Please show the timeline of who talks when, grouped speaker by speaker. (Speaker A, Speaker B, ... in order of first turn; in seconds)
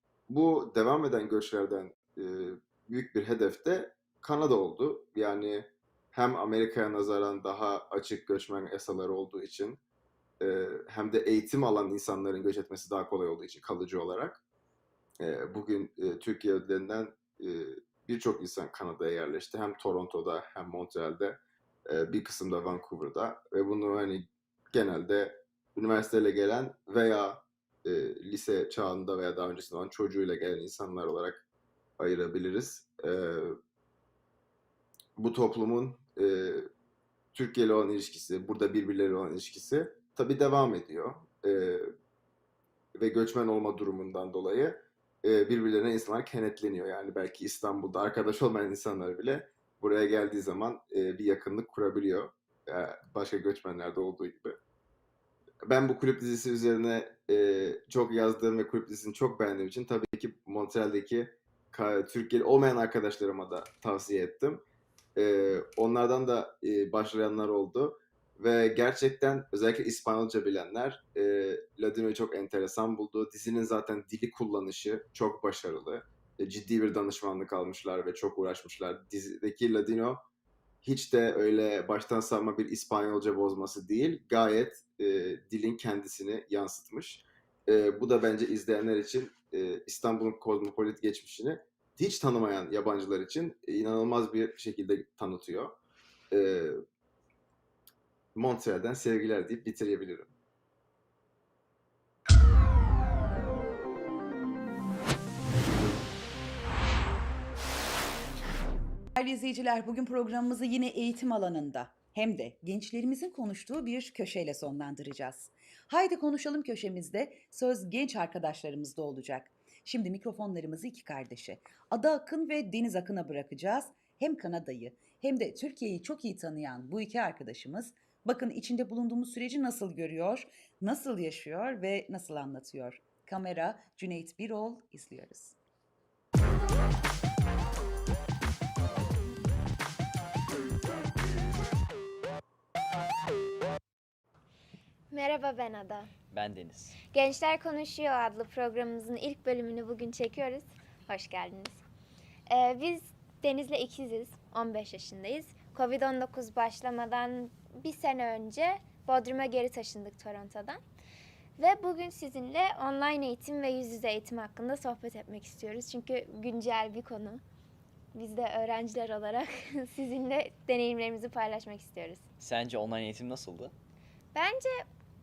Speaker A: 0.3-9.8, 10.4-14.4, 15.2-31.4, 32.0-33.6, 35.2-36.7, 37.3-41.9, 43.0-54.6, 55.7-64.6, 65.2-80.2, 80.8-95.8, 96.3-96.8, 98.3-100.3
Speaker B: 109.2-135.6
Speaker C: 145.1-146.1, 147.1-151.8, 152.5-160.8, 161.6-167.4, 168.1-172.2, 174.3-174.9
Speaker D: 146.3-147.0, 172.4-173.7